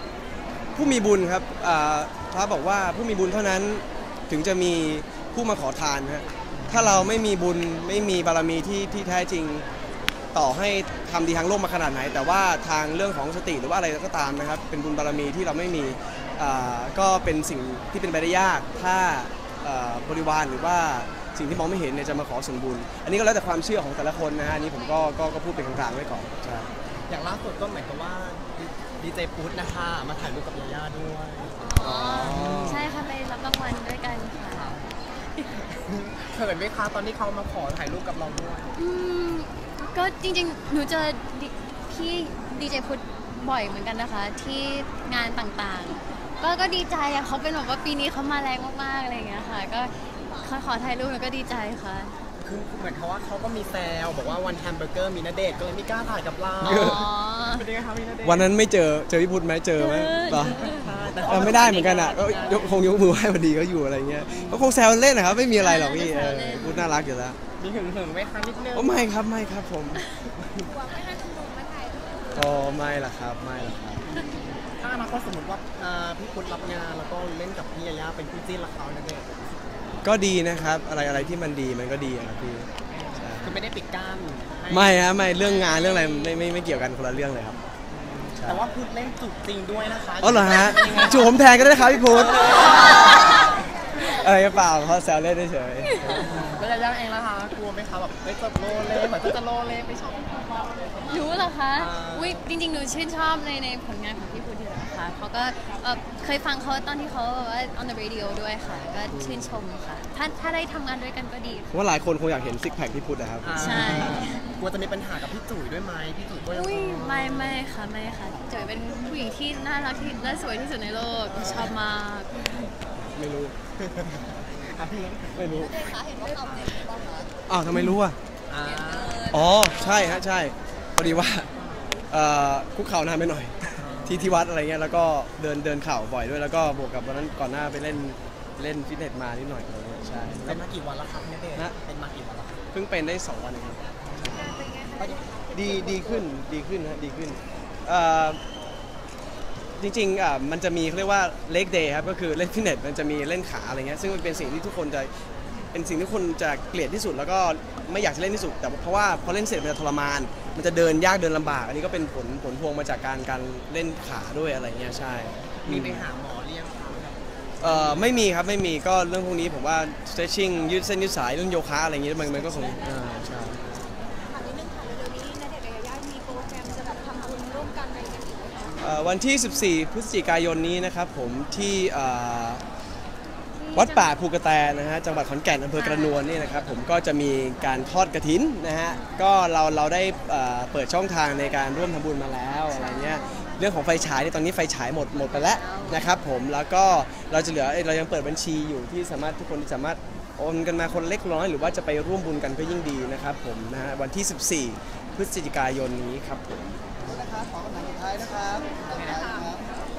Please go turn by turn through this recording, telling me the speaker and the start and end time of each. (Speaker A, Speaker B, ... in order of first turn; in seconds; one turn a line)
Speaker A: 0.8-9.7
Speaker A: 10.3-26.7
Speaker B: 27.1-31.6
Speaker C: 31.6-34.7
Speaker A: 31.8-32.9
Speaker B: 32.2-32.9
Speaker B: 34.5-34.9
Speaker B: 35.5-38.7
Speaker C: 38.8-52.1
Speaker B: 52.4-58.5
Speaker A: 56.6-57.0
Speaker C: 56.6-57.6
Speaker A: 58.2-60.7
Speaker C: 59.8-60.8
Speaker B: 60.3-62.8
Speaker A: 61.2-67.4
Speaker B: 64.3-64.7
Speaker C: 65.6-66.9
Speaker B: 67.6-69.0
Speaker A: 68.7-70.0
Speaker B: 70.3-70.7
Speaker D: 70.7-72.5
Speaker A: 72.3-74.0
Speaker B: 74.0-79.3
Speaker A: 80.0-83.6
Speaker B: 83.4-85.1
Speaker A: 84.7-87.6
Speaker C: 85.4-86.4
Speaker B: 87.9-93.1
Speaker A: 88.4-88.6
Speaker A: 90.2-93.4
Speaker A: 94.0-96.2
Speaker C: 96.0-96.3
Speaker B: 96.0-100.8
Speaker C: 101.1-111.7
Speaker B: 101.8-102.5
Speaker A: 109.1-109.6
Speaker A: 111.7-114.2
Speaker B: 113.4-117.6
Speaker C: 113.6-114.5
Speaker C: 116.5-122.7
Speaker B: 121.3-121.7
Speaker A: 123.1-123.5
Speaker B: 123.8-125.7
Speaker A: 125.3-125.9
Speaker D: 125.7-127.3
Speaker B: 126.2-126.8
Speaker A: 127.5-128.2
Speaker B: 128.5-129.4
Speaker D: 128.7-129.4
Speaker A: 129.3-131.5
Speaker B: 131.5-131.9
Speaker A: 132.1-140.6
Speaker B: 133.8-134.4
Speaker B: 140.3-142.6
Speaker A: 142.7-143.8
Speaker B: 144.1-145.2
Speaker D: 144.5-145.6
Speaker A: 145.5-148.4
Speaker A: 149.8-155.1
Speaker A: 155.7-166.1
Speaker B: 165.6-168.1
Speaker A: 167.6-173.6
Speaker D: 174.2-178.8
Speaker A: 178.8-182.6
Speaker C: 183.6-184.1
Speaker A: 183.8-206.8
Speaker C: 185.8-186.4
Speaker C: 192.7-193.4
Speaker C: 195.1-196.1
Speaker B: 207.0-209.6